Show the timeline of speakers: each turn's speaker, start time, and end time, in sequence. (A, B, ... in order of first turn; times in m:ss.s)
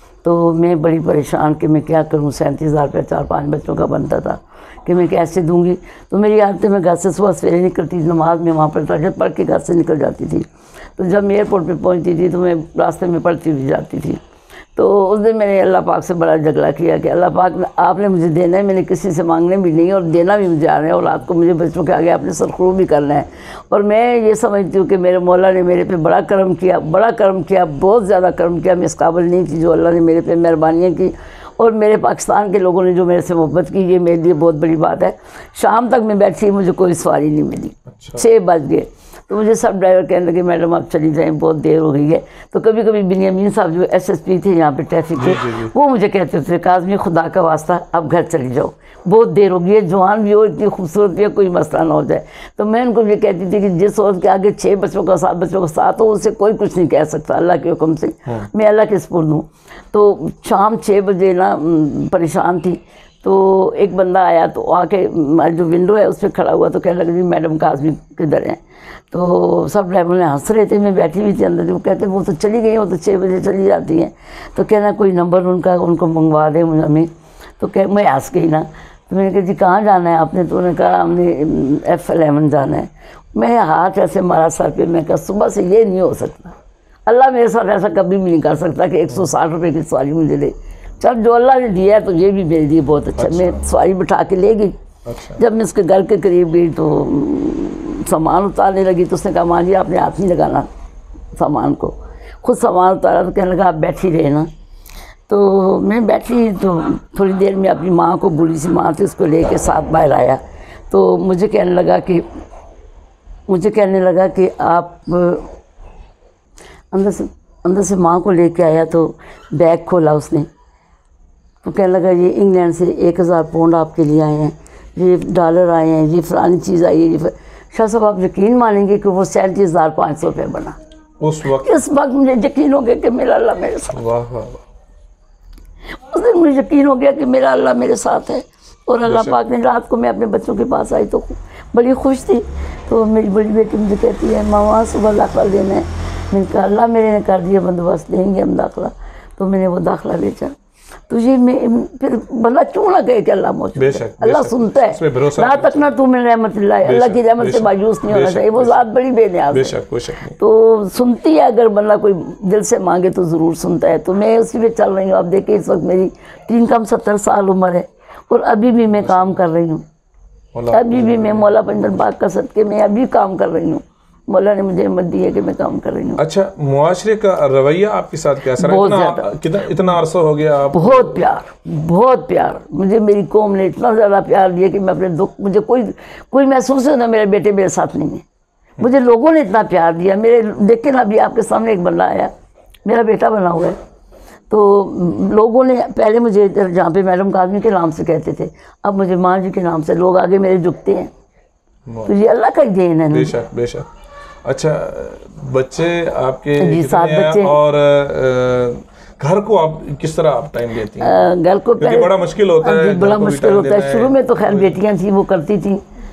0:00.2-0:14.2 A
0:14.8-1:26.6 A
0:37.9-0:38.2 B
0:45.2-0:45.7 B
1:27.1-1:34.7 A
1:33.2-1:33.6 B
1:35.1-1:35.4 B
1:35.4-1:40.7 A
1:41.4-1:44.5 A
1:45.3-1:52.3 A
1:53.5-1:55.5 A
1:56.9-2:00.5 A
2:01.6-2:10.8 A
2:11.2-2:11.8 B
2:11.6-2:14.0 A
2:13.9-2:14.6 B
2:16.1-2:30.5 A
2:19.0-2:19.4 B
2:31.1-2:39.8 A
2:33.8-2:35.9 B
2:36.8-2:38.9 B
2:39.5-2:40.4 B
2:40.4-2:49.8 A
2:49.0-2:49.4 B
2:50.5-2:51.6 B
2:50.7-2:56.2 A
2:56.2-3:01.3 B
2:58.6-2:59.3 A
3:00.7-3:08.2 A
3:08.8-3:12.3 A
3:12.9-3:13.8 A
3:14.5-3:21.1 A
3:21.9-3:22.1 B
3:22.1-3:23.3 A
3:23.1-3:23.9 B
3:24.4-3:31.2 B
3:26.6-3:27.6 A
3:31.0-3:35.8 A
3:31.8-3:34.8 B